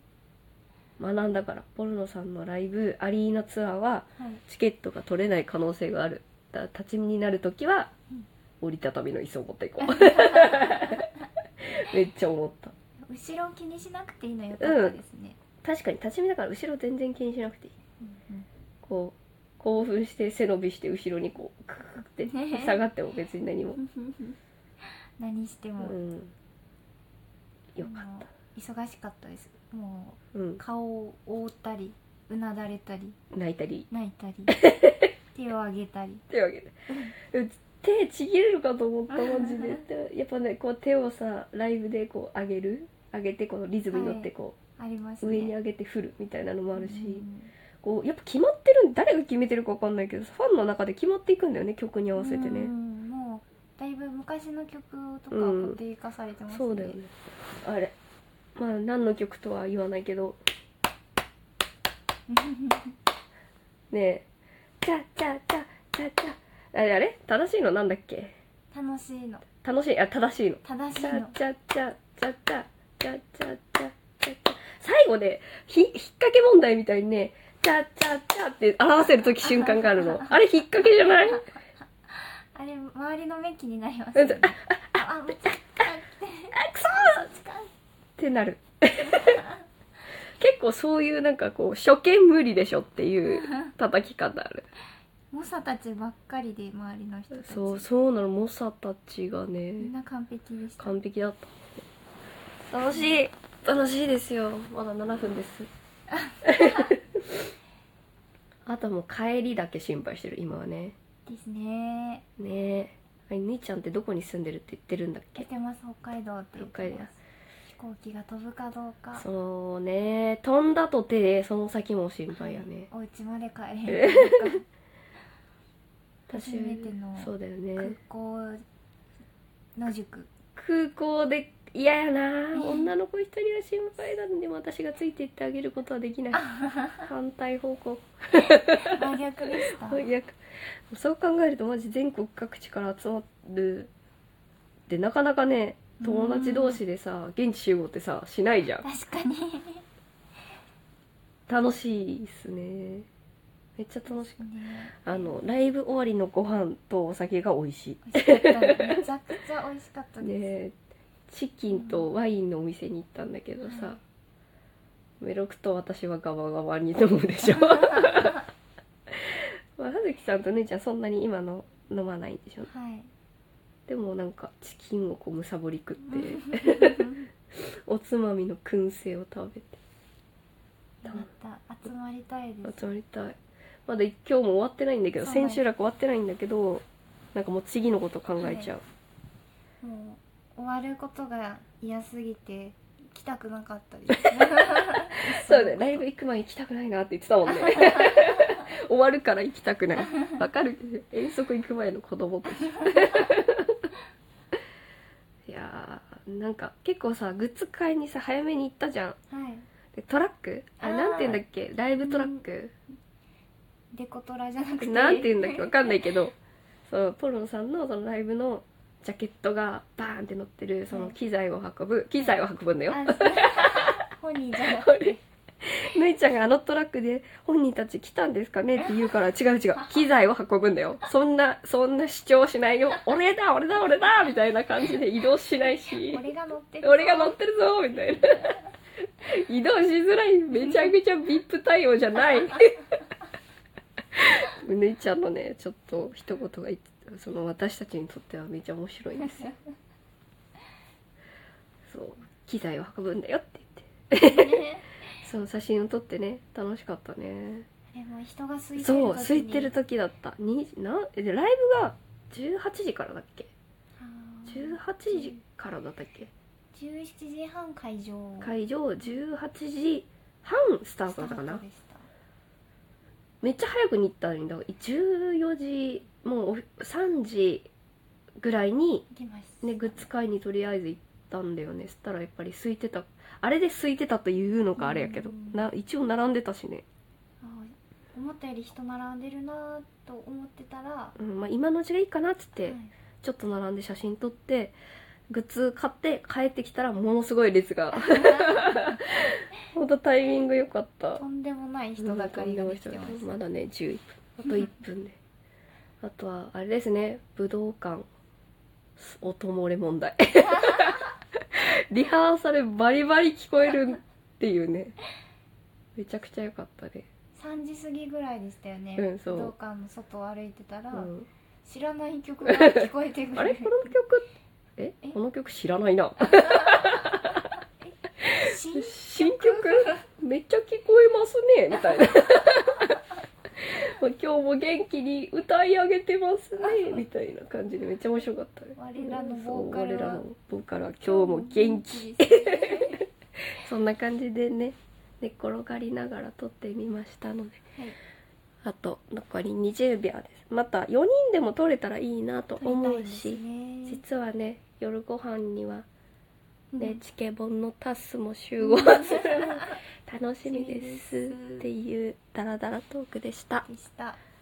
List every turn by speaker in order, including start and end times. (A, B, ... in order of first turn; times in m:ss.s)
0:01.0-0:07.9 A
0:04.2-0:04.4 B
0:08.6-0:11.0 A
0:09.8-0:11.1 B
0:11.6-0:12.7 A
0:13.1-0:15.4 B
0:14.6-0:15.0 A
0:15.6-0:17.7 A
0:18.0-0:18.5 B
0:18.8-0:23.8 A
0:22.2-0:22.8 B
0:23.9-0:24.3 B
0:25.2-0:26.0 B
0:25.8-0:26.3 A
0:27.7-0:28.2 A
0:27.8-0:33.2 B
0:30.3-0:30.6 A
0:33.3-0:33.9 A
0:33.9-0:34.6 B
0:34.5-0:35.1 A
0:35.3-0:36.2 B
0:36.3-0:44.6 A
0:39.1-0:39.8 B
0:43.9-0:45.5 B
0:45.2-0:47.2 A
0:46.8-0:47.5 B
0:47.8-0:52.7 A
0:52.2-0:57.0 B
0:55.3-0:55.8 A
0:56.5-0:57.9 A
0:58.6-1:00.4 A
1:02.3-1:02.9 B
1:03.9-1:04.2 A
1:04.8-1:08.3 A
1:08.7-1:09.4 B
1:09.6-1:21.5 A
1:10.6-1:11.3 B
1:19.5-1:20.3 B
1:22.1-1:27.7 B
1:24.1-1:25.6 A
1:26.5-1:27.2 A
1:28.2-1:29.4 A
1:29.1-1:29.5 B
1:30.4-1:34.6 A
1:33.3-1:33.7 B
1:35.3-1:37.9 B
1:37.3-1:39.9 A
1:39.8-1:41.0 B
1:40.8-1:41.6 A
1:42.7-1:45.7 A
1:46.2-1:46.9 B
1:46.4-1:47.2 A
1:48.6-1:51.0 A
1:51.2-1:52.2 B
1:52.4-1:55.5 A
1:55.4-1:57.2 B
1:56.6-1:57.1 A
1:57.7-1:59.2 B
1:59.2-2:02.9 A
2:02.3-2:04.6 B
2:03.9-2:04.5 A
2:06.3-2:08.0 A
2:06.3-2:08.6 B
2:09.8-2:10.3 B
2:10.6-2:19.1 A
2:12.5-2:12.9 B
2:16.4-2:17.0 B
2:18.8-2:20.1 B
2:19.7-2:23.9 A
2:24.9-2:28.8 A
2:26.0-2:26.8 B
2:28.8-2:29.8 B
2:31.5-2:33.1 A
2:33.8-2:34.4 A
2:34.1-2:35.3 B
2:35.0-2:39.0 A
2:38.0-2:40.5 B
2:40.2-2:40.7 A
2:41.3-2:44.0 A
2:41.7-2:42.0 B
2:43.6-2:44.0 B
2:45.2-2:48.4 A
2:47.6-2:48.2 B
2:49.1-2:52.7 A
2:52.7-2:53.1 B
2:53.9-2:59.8 A
2:56.1-2:57.2 B
3:01.0-3:02.9 B
3:02.6-3:08.8 A
3:05.2-3:05.6 B
3:08.4-3:08.7 B
3:09.8-3:16.0 B
3:14.1-3:23.9 A
3:17.5-3:18.4 B
3:25.4-3:29.2 A
3:29.3-3:29.6 B
3:29.9-3:32.7 A
3:30.8-3:31.4 B
3:32.0-3:32.4 B
3:33.9-3:36.0 B
3:34.8-3:36.4 A
3:36.9-3:44.0 A
3:42.9-3:45.2 B
3:44.7-3:45.1 A
3:45.6-3:56.3 A
3:56.0-3:57.4 B
3:56.8-3:58.6 A
3:59.2-4:02.8 A
4:04.1-4:09.5 A
4:11.9-4:14.6 A
4:14.1-4:14.8 B
4:15.2-4:17.7 A
4:17.9-4:19.7 B
4:18.8-4:23.5 A
4:24.0-4:25.4 B
4:24.5-4:26.3 A
4:26.7-4:28.5 B
4:28.4-4:31.6 A
4:31.1-4:32.1 B
4:33.4-4:37.7 A
4:38.4-4:39.1 A
4:39.1-4:40.0 B
4:39.6-4:46.8 A
4:44.8-4:45.7 B
4:47.4-4:51.2 B
4:51.2-4:54.8 A
4:52.6-4:52.9 B
4:55.3-5:01.2 A
4:58.0-4:58.8 B
5:01.2-5:03.4 B
5:02.0-5:05.2 A
5:06.0-5:08.1 A
5:09.0-5:14.9 A
5:16.0-5:17.1 A
5:17.4-5:21.1 B
5:19.0-5:19.5 A
5:20.9-5:21.3 A
5:21.6-5:23.9 B
5:22.4-5:27.4 A
5:28.2-5:33.0 A
5:28.2-5:30.0 B
5:33.6-5:47.6 A
5:38.8-5:40.2 B
5:41.0-5:43.0 B
5:48.6-5:55.8 A
5:52.6-5:54.0 B
5:56.7-5:57.0 B
5:56.8-6:03.6 A
5:58.6-5:59.7 B
6:00.4-6:01.7 B
6:03.6-6:04.2 B